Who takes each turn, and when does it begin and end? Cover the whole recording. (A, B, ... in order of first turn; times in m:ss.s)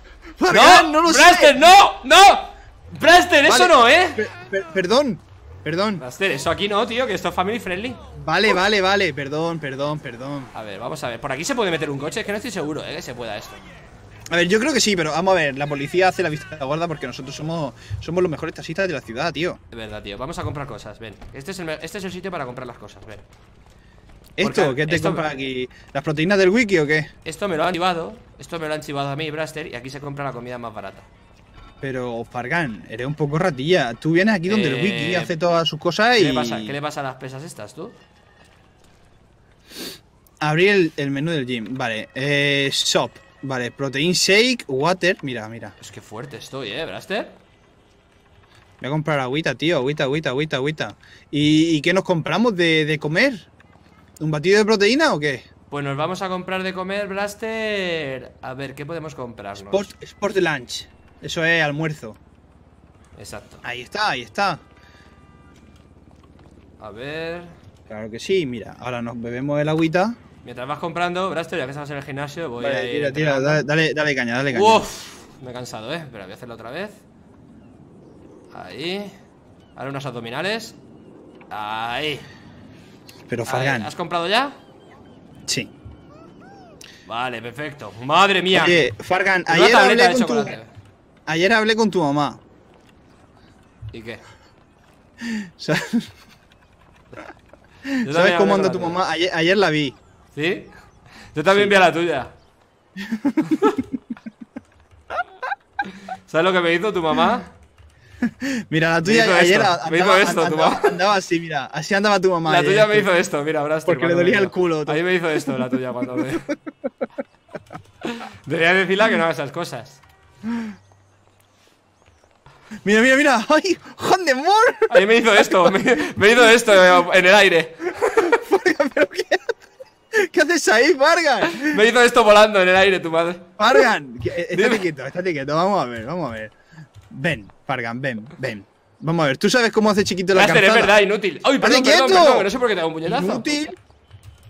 0:00.4-0:01.7 A
0:00.5-0:04.2 B
0:03.4-0:06.0 A
0:06.0-0:08.0 B
0:08.2-0:10.5 A
0:10.5-0:13.6 B
0:14.3-0:19.6 A
0:19.7-0:23.2 B
0:24.4-0:27.1 A
0:24.4-0:25.3 B
0:27.2-0:31.1 B
0:31.8-0:36.7 A
0:34.5-0:35.3 B
0:36.2-0:38.0 B
0:40.4-0:45.7 A
0:45.8-0:47.3 B
0:48.8-0:53.5 A
0:54.2-0:55.5 A
0:55.7-0:59.9 B
0:59.6-1:02.2 A
1:03.2-1:03.6 B
1:03.6-1:04.6 A
1:06.8-1:07.5 B
1:07.9-1:10.2 A
1:10.4-1:13.6 B
1:12.6-1:14.8 A
1:14.5-1:17.0 B
1:18.5-1:19.2 B
1:19.8-1:20.8 B
1:21.5-1:22.3 B
1:23.3-1:23.9 A
1:23.5-1:24.5 B
1:25.5-1:25.7 A
1:27.1-1:28.8 B
1:28.5-1:30.6 A
1:29.5-1:30.7 B
1:31.2-1:32.4 A
1:33.9-1:34.2 B
1:35.2-1:36.1 A
1:37.8-1:40.0 A
1:38.0-1:39.0 B
1:40.3-1:40.7 B
1:41.3-1:42.3 B
1:43.0-1:43.6 A
1:43.5-1:43.8 B
1:45.9-1:47.5 B
1:48.2-1:53.1 A
1:49.0-1:51.0 B
1:52.4-1:56.5 B
1:53.8-1:55.7 A
1:58.0-2:00.0 B
2:00.5-2:00.7 A
2:02.8-2:05.8 A
2:04.9-2:08.3 B
2:08.2-2:09.6 A
2:10.1-2:11.8 A
2:11.5-2:13.5 B
2:13.6-2:16.5 A
2:14.5-2:14.8 B
2:17.1-2:21.0 A
2:20.3-2:23.5 B
2:21.6-2:22.5 A
2:23.0-2:23.8 A